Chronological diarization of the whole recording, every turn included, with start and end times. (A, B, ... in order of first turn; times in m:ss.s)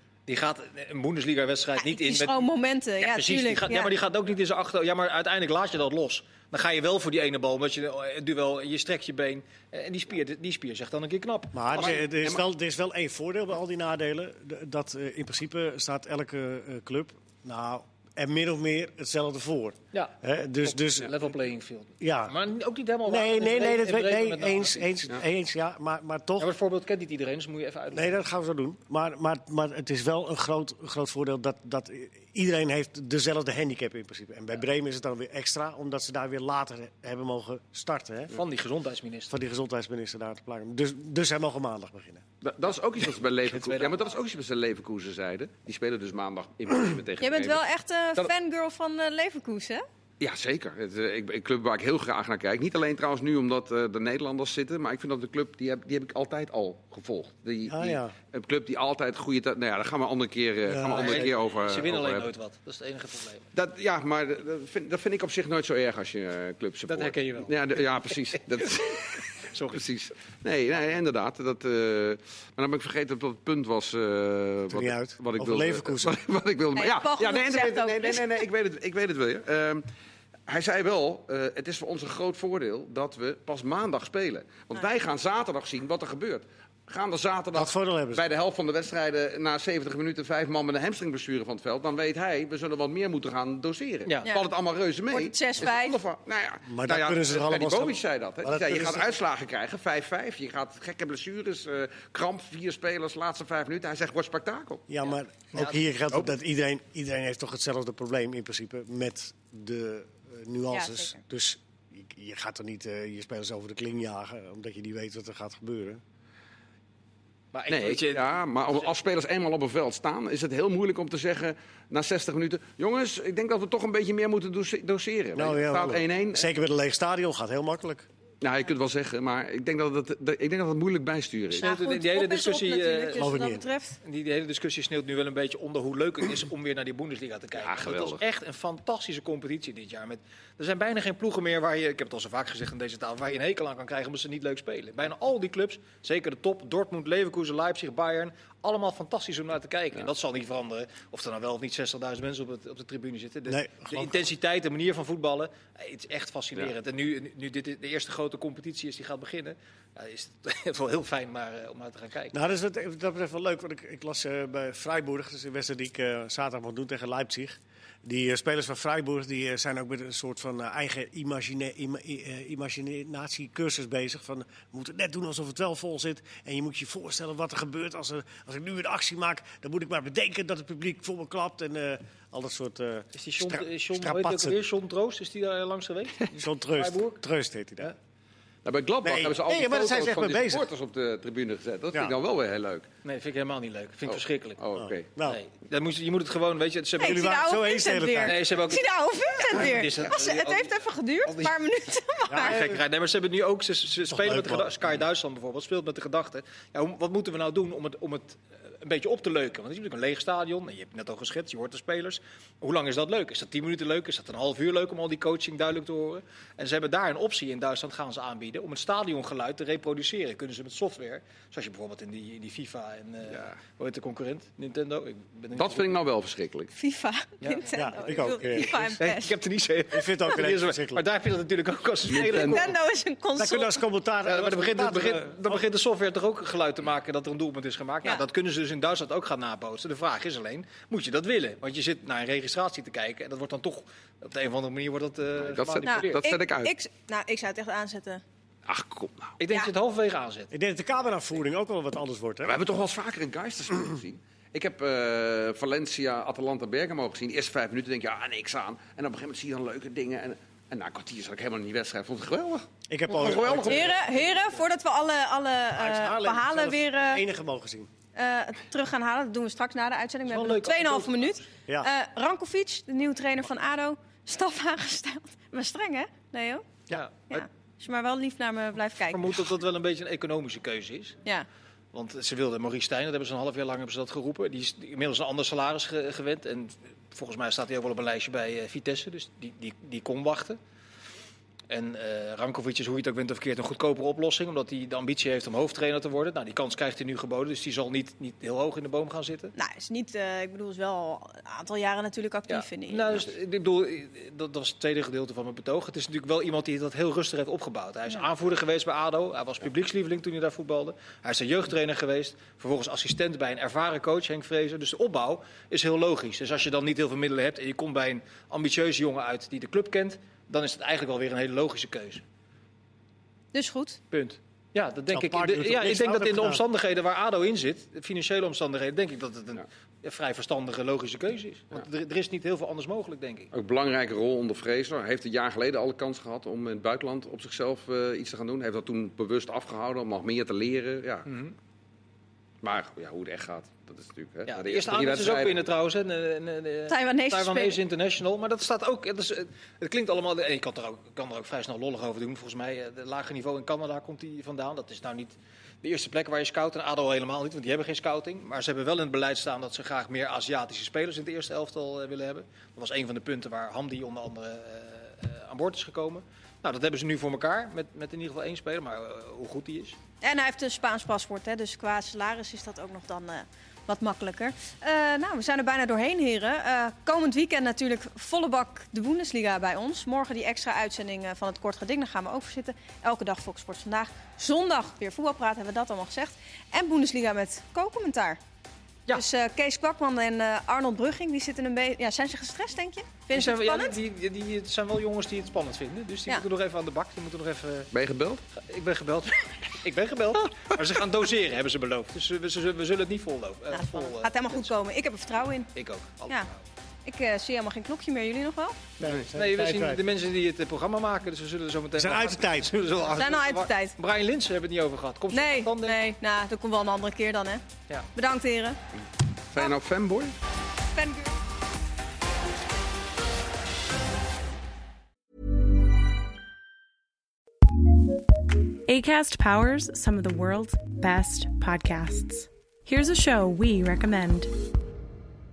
0:00.3-0:02.5 A
0:01.8-0:03.9 B
0:03.0-0:11.9 A
0:11.5-0:21.1 C
0:11.7-0:12.4 D
0:19.9-0:24.9 A
0:22.0-0:22.4 C
0:23.1-0:26.5 C
0:26.4-0:28.2 A
0:27.9-0:38.4 C
0:38.3-0:39.3 A
0:39.3-0:42.2 C
0:42.4-0:47.6 D
0:43.5-0:44.1 A
0:47.2-0:49.8 B
0:50.2-1:02.3 D
0:57.7-0:58.1 C
1:00.7-1:01.3 C
1:00.9-1:03.5 A
1:03.5-1:19.9 D
1:06.9-1:08.4 A
1:09.5-1:09.8 A
1:14.7-1:16.2 C
1:16.8-1:18.4 B
1:20.5-1:44.8 D
1:27.5-1:28.3 C
1:35.1-1:36.0 B
1:36.7-1:39.2 C
1:44.9-1:56.0 C
1:45.5-1:45.8 A
1:50.7-1:51.2 B
1:57.5-1:59.0 A
1:57.7-2:06.5 D
2:05.3-2:08.1 C
2:08.4-2:11.7 D
2:11.5-2:14.0 B
2:11.6-2:13.3 A
2:13.2-2:13.6 C
2:14.0-2:42.4 A
2:17.6-2:18.2 D
2:33.5-2:34.1 C
2:42.3-3:04.6 C
3:03.2-3:07.2 A
3:06.3-3:07.9 C
3:08.6-3:12.9 D
3:09.0-3:10.7 C
3:13.0-3:14.6 A
3:14.1-3:15.1 D
3:14.8-3:15.4 C
3:15.2-3:17.2 A
3:17.0-3:18.4 C
3:17.0-3:22.6 B
3:18.2-3:21.6 A
3:22.3-3:22.8 C
3:22.3-3:45.9 A
3:24.1-3:24.7 C
3:43.3-3:43.5 D
3:45.6-3:46.7 D
3:46.7-3:49.3 B
3:47.7-3:49.0 C
3:48.6-3:52.7 A
3:49.9-3:51.1 C
3:52.1-3:52.7 D
3:52.3-3:53.8 B
3:53.4-3:55.6 C
3:54.2-4:06.3 A
4:05.4-4:06.7 D
4:05.9-4:08.2 B
4:08.7-4:09.3 D
4:09.4-4:10.5 A
4:10.5-4:12.6 C
4:12.4-4:23.9 D
4:22.9-4:24.0 C
4:23.7-4:27.2 B
4:24.0-4:24.4 A
4:25.8-4:27.9 C
4:28.2-4:39.3 B
4:30.3-4:31.5 A
4:36.9-4:37.2 A
4:39.1-4:41.2 A
4:41.9-4:50.6 A
4:51.7-4:59.5 A
4:59.6-5:03.1 B
5:02.5-5:22.2 A
5:23.5-5:24.0 B
5:24.1-5:33.5 A
5:25.1-5:26.6 C
5:33.5-5:41.3 D
5:41.3-5:41.6 A
5:42.6-5:45.6 D
5:44.5-6:10.0 A
5:46.9-5:47.8 B
6:10.2-6:28.4 B
6:29.1-6:34.0 B
6:33.3-6:37.9 A
6:37.9-6:38.4 D
6:38.6-6:44.7 A
6:43.7-6:45.7 B
6:45.8-6:46.6 A
6:47.1-6:48.8 B
6:49.0-6:50.0 C
6:49.3-6:56.0 A
6:52.0-6:52.7 C
6:53.2-6:54.0 B
6:55.3-6:58.8 B
6:59.5-7:00.3 D
7:01.0-7:01.3 B
7:08.9-7:14.5 E